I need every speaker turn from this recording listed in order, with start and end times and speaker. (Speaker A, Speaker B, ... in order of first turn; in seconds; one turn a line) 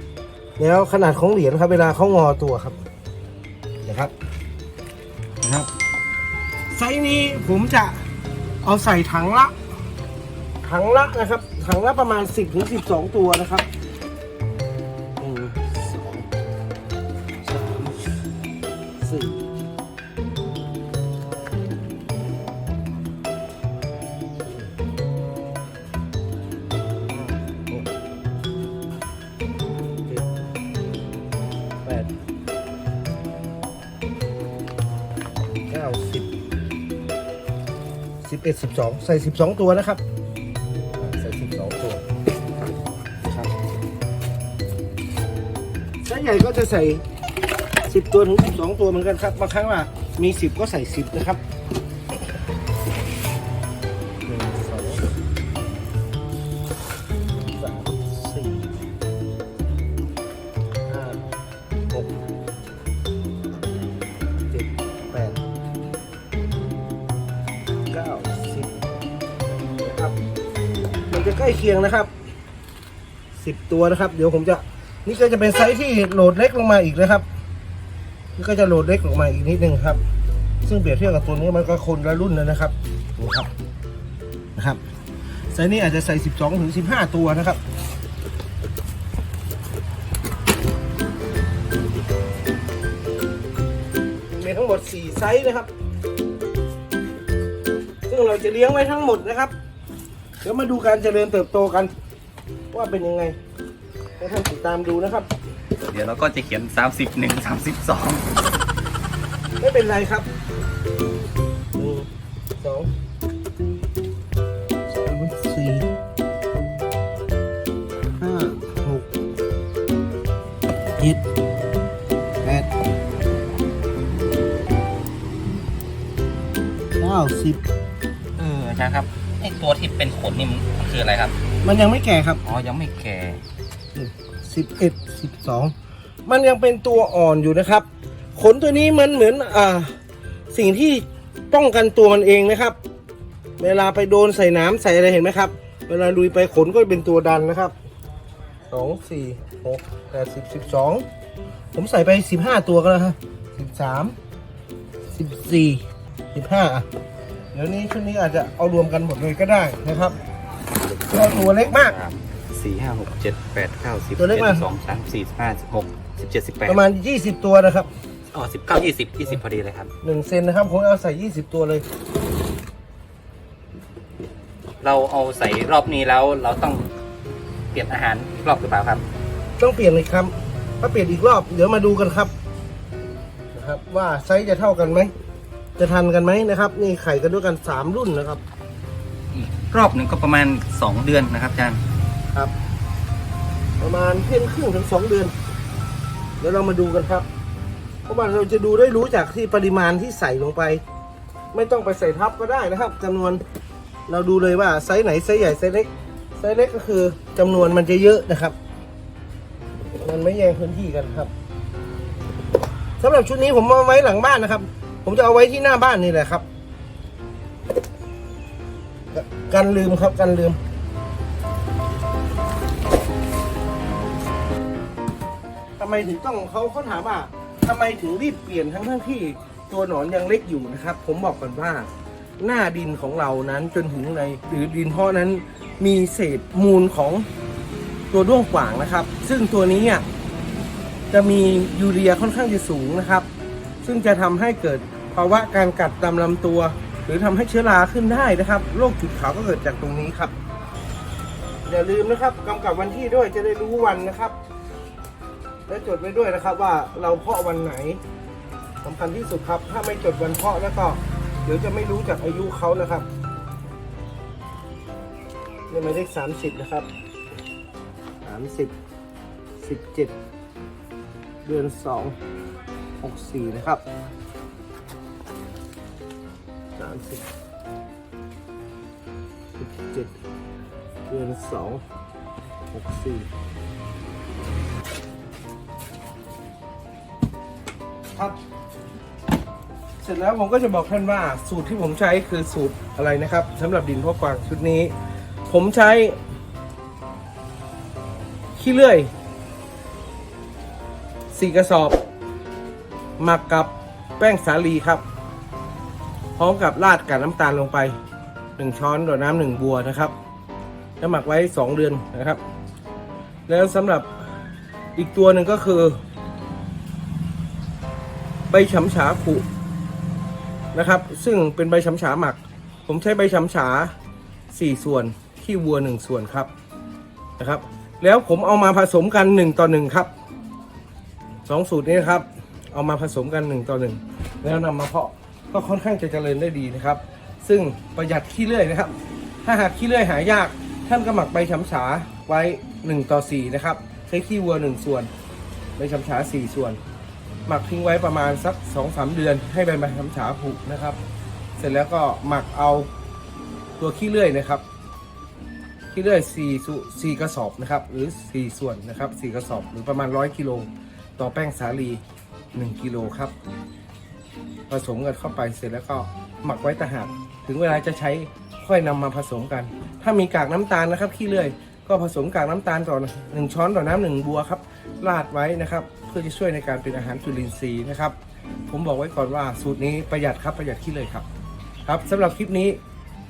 Speaker A: 0.6-2.8
Speaker A: 3.8-4.1
Speaker A: 5.4-5.7
Speaker A: 6.7-8.0
Speaker A: 8.6-9.5
Speaker A: 10.6-13.7
Speaker A: 15.2-16.3
Speaker A: 17.4-18.0
Speaker A: 19.0-19.4
Speaker A: 24.4-24.7
Speaker A: 27.1-27.9
Speaker A: 30.1-30.3
Speaker A: 31.8-32.1
Speaker A: 35.7-36.3
Speaker A: 38.2-40.0
Speaker A: 41.0-42.0
Speaker A: 43.2-43.5
Speaker A: 46.0-47.0
Speaker A: 47.9-51.4
Speaker A: 54.2-55.0
Speaker A: 57.4-58.8
Speaker A: 60.9-61.2
Speaker A: 64.4-65.4
Speaker A: 67.9-68.7
Speaker A: 69.8-70.2
Speaker A: 71.1-72.1
Speaker A: 73.3-77.3
Speaker A: 78.3-80.0
Speaker A: 80.6-83.5
Speaker A: 84.5-84.8
Speaker A: 85.5-87.6
Speaker A: 94.3-95.7
Speaker A: 98.1-99.5
Speaker A: 100.4-101.9
Speaker A: 102.7-103.4
Speaker A: 104.2-105.3
Speaker B: 105.9-108.3
Speaker A: 109.6-110.3
Speaker A: 111.7-112.9
Speaker A: 114.9-115.9
Speaker A: 118.2-119.1
Speaker A: 122.4-122.7
Speaker A: 127.0-127.6
Speaker B: 128.4-131.3
Speaker A: 131.6-132.4
Speaker B: 132.4-133.4
Speaker A: 133.9-135.7
Speaker A: 136.2-139.9
Speaker A: 140.5-142.8
Speaker A: 143.6-147.7
Speaker A: 148.7-151.1
Speaker A: 151.7-154.2
Speaker A: 155.1-156.9
Speaker A: 157.5-160.2
Speaker B: 160.8-166.8
Speaker A: 161.1-161.9
Speaker A: 164.2-164.6
Speaker A: 166.7-167.9
Speaker B: 168.3-169.9
Speaker A: 170.0-171.8
Speaker B: 174.8-176.9
Speaker B: 177.7-179.0
Speaker A: 179.6-182.3
Speaker A: 183.5-185.1
Speaker A: 185.8-188.4
Speaker B: 189.3-191.8
Speaker A: 193.8-195.3
Speaker A: 196.4-197.3
Speaker A: 198.1-200.8
Speaker A: 201.5-203.4
Speaker A: 204.1-208.6
Speaker A: 210.0-211.3
Speaker A: 213.0-216.4
Speaker A: 219.1-220.6
Speaker A: 225.8-237.3
Speaker A: 238.1-240.0
Speaker A: 241.1-243.3
Speaker A: 243.8-250.3
Speaker A: 251.7-254.3
Speaker A: 255.7-258.0
Speaker A: 258.8-263.1
Speaker A: 265.7-266.9
Speaker A: 268.2-268.7
Speaker A: 269.6-270.1
Speaker A: 271.4-272.2
Speaker A: 273.0-273.8
Speaker A: 276.8-277.2
Speaker A: 279.6-280.1
Speaker A: 281.1-281.8
Speaker A: 282.7-283.3
Speaker A: 290.0-294.9
Speaker A: 295.5-296.2
Speaker A: 298.6-299.1
Speaker A: 301.3-302.0
Speaker A: 303.2-305.0
Speaker A: 306.4-308.0
Speaker A: 308.6-310.1
Speaker A: 311.0-312.4
Speaker A: 313.5-314.1
Speaker A: 314.9-316.0
Speaker A: 318.5-319.4
Speaker A: 320.7-323.9
Speaker A: 324.5-326.5
Speaker A: 327.4-330.1
Speaker A: 331.4-345.1
Speaker A: 345.8-346.8
Speaker A: 347.5-351.0
Speaker A: 351.6-352.9
Speaker A: 353.8-354.6
Speaker A: 355.9-362.0
Speaker A: 362.5-363.3
Speaker A: 364.7-378.1
Speaker A: 378.7-381.2
Speaker A: 381.8-382.8